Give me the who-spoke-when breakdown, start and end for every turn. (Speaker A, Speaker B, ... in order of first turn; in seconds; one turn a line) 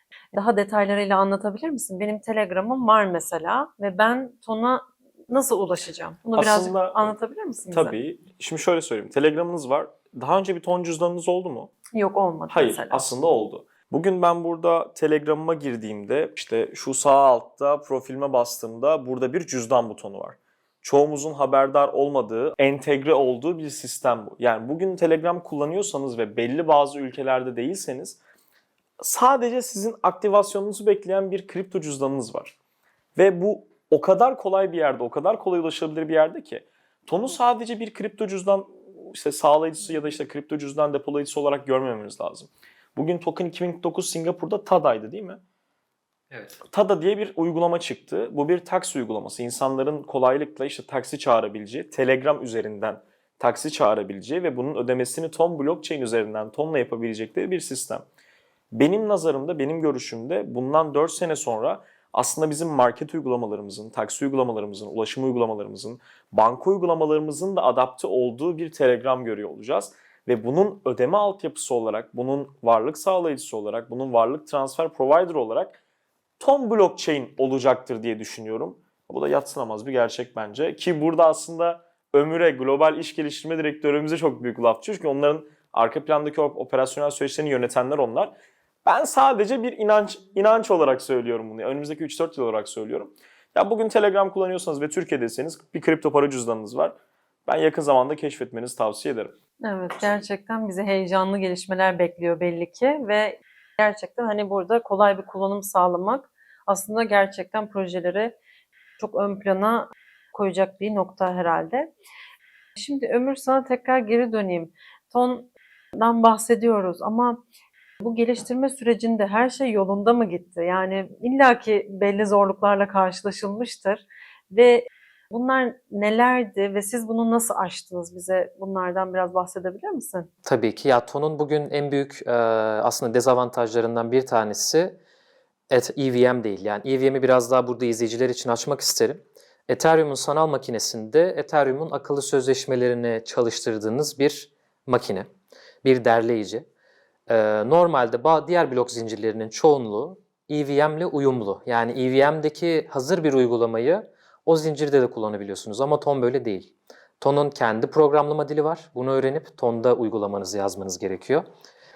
Speaker A: 0.3-8.0
Speaker B: 6.3-7.2
Speaker B: 7.7-11.7
Speaker A: 11.9-13.1
Speaker B: 12.5-28.2
Speaker B: 29.0-32.5
Speaker B: 33.1-45.4
Speaker C: 46.3-46.6
Speaker B: 46.6-58.0
Speaker B: 58.7-75.8
Speaker B: 76.4-88.3
Speaker B: 88.8-97.0
Speaker B: 97.5-99.3
Speaker A: 99.6-108.3
Speaker A: 109.0-111.9
Speaker A: 112.8-117.4
Speaker A: 118.0-130.3
Speaker C: 130.4-135.0
Speaker C: 135.7-145.3
Speaker C: 145.8-146.7
Speaker C: 147.3-161.4